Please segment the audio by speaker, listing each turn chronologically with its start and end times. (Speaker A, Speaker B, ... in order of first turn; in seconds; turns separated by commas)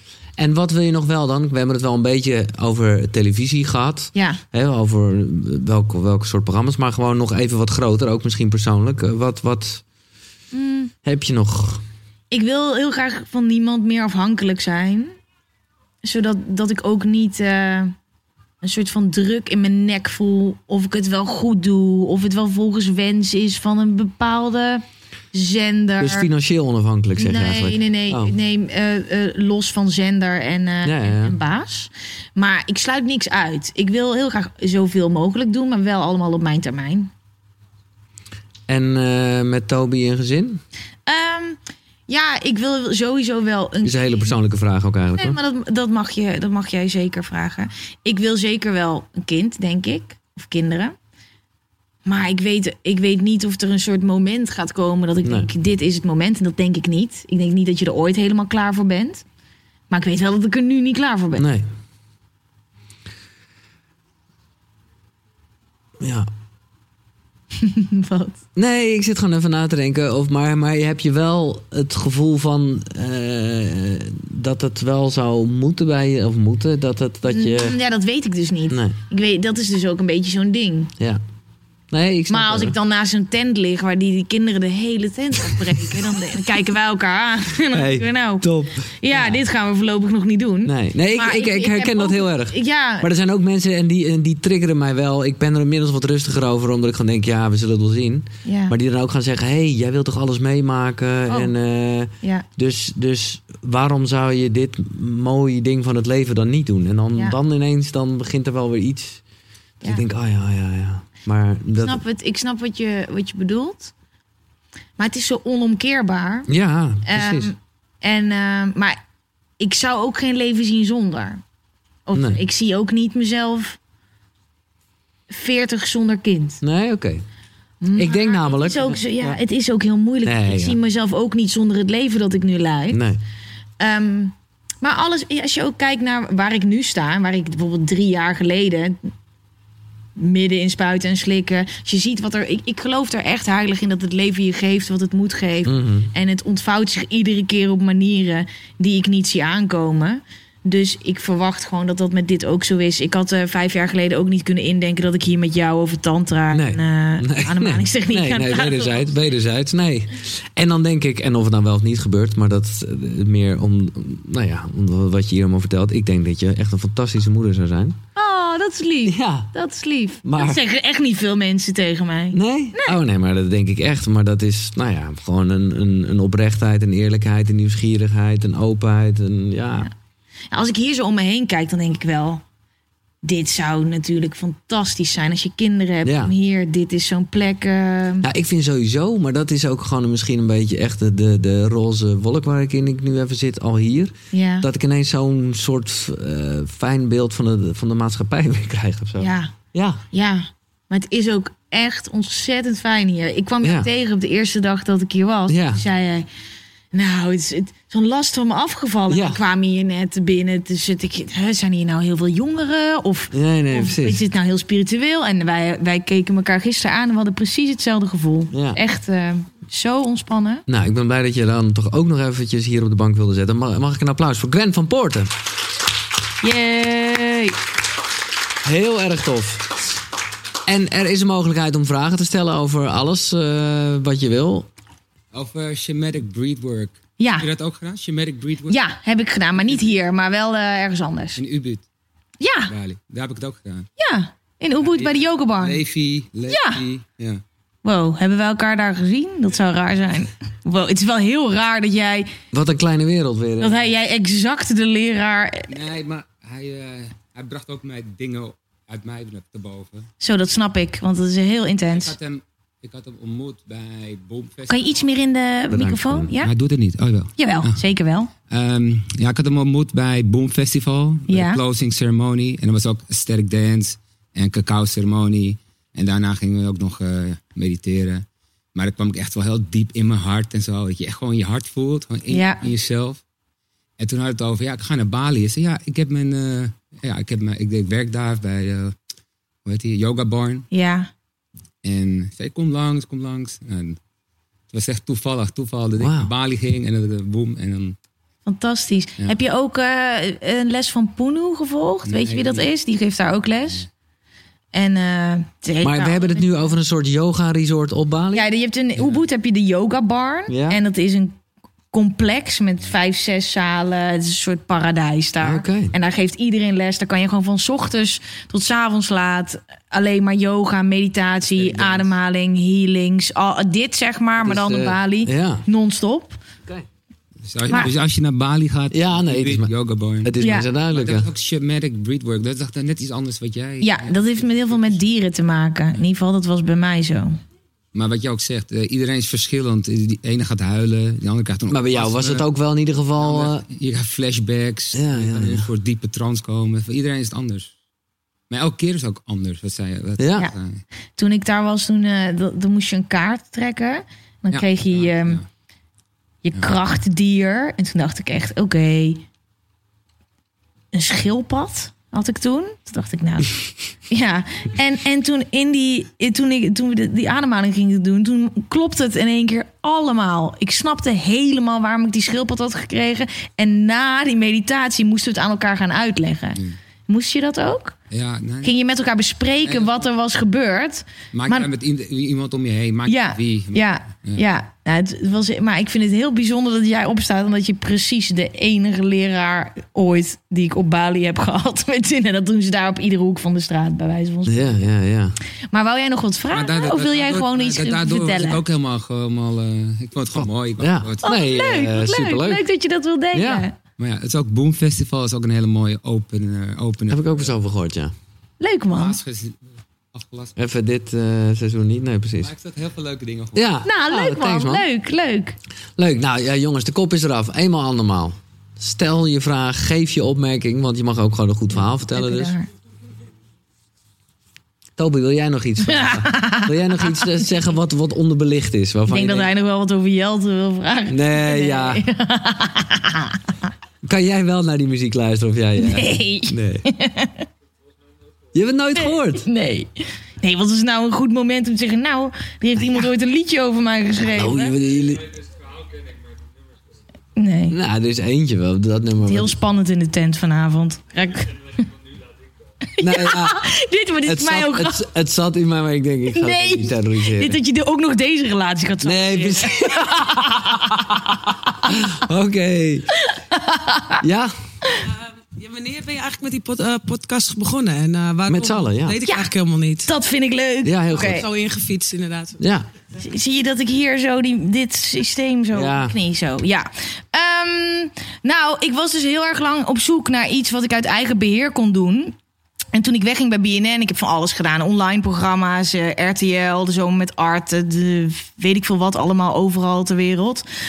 Speaker A: 0.4-9.8, Speaker B: 4.2-4.4, Speaker B: 10.5-10.9, Speaker A: 11.1-11.8, Speaker B: 12.3-15.1, Speaker B: 16.0-17.9, Speaker B: 18.6-26.3, Speaker A: 26.0-28.3, Speaker B: 27.2-37.1, Speaker A: 30.8-31.4, Speaker A: 38.7-40.6, Speaker B: 41.1-44.3, Speaker A: 43.8-45.4, Speaker B: 45.2-50.9, Speaker B: 52.0-59.2, Speaker A: 55.2-55.5, Speaker B: 59.9-61.5, Speaker A: 61.4-61.7, Speaker A: 66.0-66.3, Speaker B: 67.6-68.4, Speaker A: 68.5-77.8, Speaker B: 77.3-80.9, Speaker A: 78.7-79.0, Speaker A: 81.9-82.8, Speaker B: 82.3-93.1, Speaker A: 87.7-89.4, Speaker A: 90.6-109.2, Speaker B: 98.5-98.7, Speaker B: 101.3-101.5, Speaker A: 109.8-112.0, Speaker B: 111.8-113.9, Speaker B: 115.0-116.5, Speaker A: 116.5-117.5, Speaker B: 117.1-119.0, Speaker B: 119.6-121.4, Speaker B: 122.1-123.8, Speaker A: 122.1-122.4, Speaker B: 125.3-126.6, Speaker A: 126.6-127.2, Speaker B: 127.8-133.0, Speaker A: 128.0-129.4, Speaker A: 130.2-130.8, Speaker A: 132.9-133.2, Speaker B: 133.8-139.0, Speaker B: 140.2-159.1, Speaker A: 145.7-146.1, Speaker A: 156.5-168.0, Speaker B: 168.2-173.0, Speaker A: 169.1-169.5, Speaker A: 170.2-170.6, Speaker A: 172.3-179.9, Speaker B: 180.5-182.4, Speaker B: 183.2-188.3, Speaker A: 186.0-186.3, Speaker A: 188.2-200.0, Speaker B: 194.3-194.7, Speaker B: 199.2-199.5, Speaker B: 200.1-206.3, Speaker A: 203.6-203.9, Speaker A: 205.5-205.8, Speaker B: 206.9-220.6, Speaker A: 209.1-209.4, Speaker A: 213.3-214.2, Speaker A: 218.5-218.8, Speaker A: 220.7-225.3, Speaker B: 226.4-227.6, Speaker A: 228.6-229.7, Speaker A: 230.7-234.7, Speaker C: 235.3-238.8, Speaker B: 237.2-237.5, Speaker B: 238.7-241.4, Speaker C: 241.4-241.8, Speaker B: 242.4-242.7, Speaker C: 242.7-243.9, Speaker B: 244.0-245.8, Speaker C: 244.8-247.4, Speaker B: 246.5-246.8, Speaker B: 247.8-252.3, Speaker A: 252.5-253.8, Speaker B: 253.6-255.7, Speaker C: 255.7-260.1, Speaker B: 260.2-262.1, Speaker C: 261.9-265.1, Speaker B: 264.7-266.5, Speaker A: 265.7-266.3, Speaker C: 266.4-267.8, Speaker B: 267.4-268.3, Speaker C: 268.5-278.2, Speaker B: 271.3-271.6, Speaker C: 278.8-283.2, Speaker B: 282.3-282.6, Speaker C: 284.0-288.9, Speaker C: 289.6-290.7, Speaker B: 290.7-291.1, Speaker C: 291.8-294.0, Speaker C: 294.7-297.9, Speaker A: 296.0-296.3, Speaker B: 298.5-303.9, Speaker C: 302.1-302.7, Speaker B: 304.7-306.4, Speaker A: 305.8-308.5, Speaker B: 308.3-311.4, Speaker A: 310.5-310.8, Speaker B: 311.9-326.4, Speaker A: 315.4-315.9, Speaker C: 321.6-322.1, Speaker A: 324.4-325.6, Speaker C: 327.5-330.3, Speaker A: 328.9-329.7, Speaker A: 330.2-331.3, Speaker B: 330.4-330.7, Speaker C: 330.9-335.0, Speaker B: 333.8-337.4, Speaker C: 337.9-342.5, Speaker A: 341.7-343.6, Speaker C: 343.2-347.7, Speaker A: 344.9-345.7, Speaker C: 348.5-350.8, Speaker A: 350.2-350.5, Speaker B: 351.2-355.4, Speaker C: 354.5-355.4, Speaker B: 356.4-359.2, Speaker B: 360.9-378.0, Speaker C: 378.1-378.7, Speaker B: 378.6-381.7, Speaker C: 379.7-380.0, Speaker C: 381.3-384.4, Speaker B: 383.1-394.8, Speaker A: 394.5-395.4, Speaker B: 395.7-398.6, Speaker C: 396.5-401.2, Speaker A: 400.4-402.6, Speaker B: 401.2-403.8, Speaker A: 403.3-403.6, Speaker C: 404.0-407.5, Speaker A: 407.1-408.1, Speaker B: 408.6-409.2, Speaker C: 408.9-410.5, Speaker A: 410.6-412.5, Speaker C: 412.4-413.6, Speaker A: 413.6-414.9, Speaker B: 413.8-415.6, Speaker A: 416.0-422.5, Speaker B: 422.0-422.7, Speaker A: 425.0-429.5, Speaker B: 425.8-427.5, Speaker B: 429.1-433.4, Speaker A: 431.1-432.0, Speaker A: 434.0-436.9, Speaker B: 435.8-437.5, Speaker A: 438.5-439.5, Speaker B: 439.0-444.8, Speaker A: 444.3-445.4, Speaker B: 447.4-447.8, Speaker A: 447.7-449.5, Speaker B: 449.2-451.8, Speaker B: 452.9-455.0, Speaker A: 453.0-453.6, Speaker A: 454.2-457.6, Speaker B: 456.3-462.0, Speaker A: 459.0-463.1, Speaker B: 463.1-464.2, Speaker A: 464.2-464.5, Speaker B: 464.8-465.1, Speaker D: 465.1-470.1, Speaker A: 468.5-469.2, Speaker B: 469.2-469.5, Speaker B: 470.1-471.5, Speaker A: 470.8-471.4, Speaker D: 471.1-472.6, Speaker A: 472.6-472.9, Speaker B: 473.2-482.4, Speaker A: 475.7-476.2, Speaker B: 482.9-490.7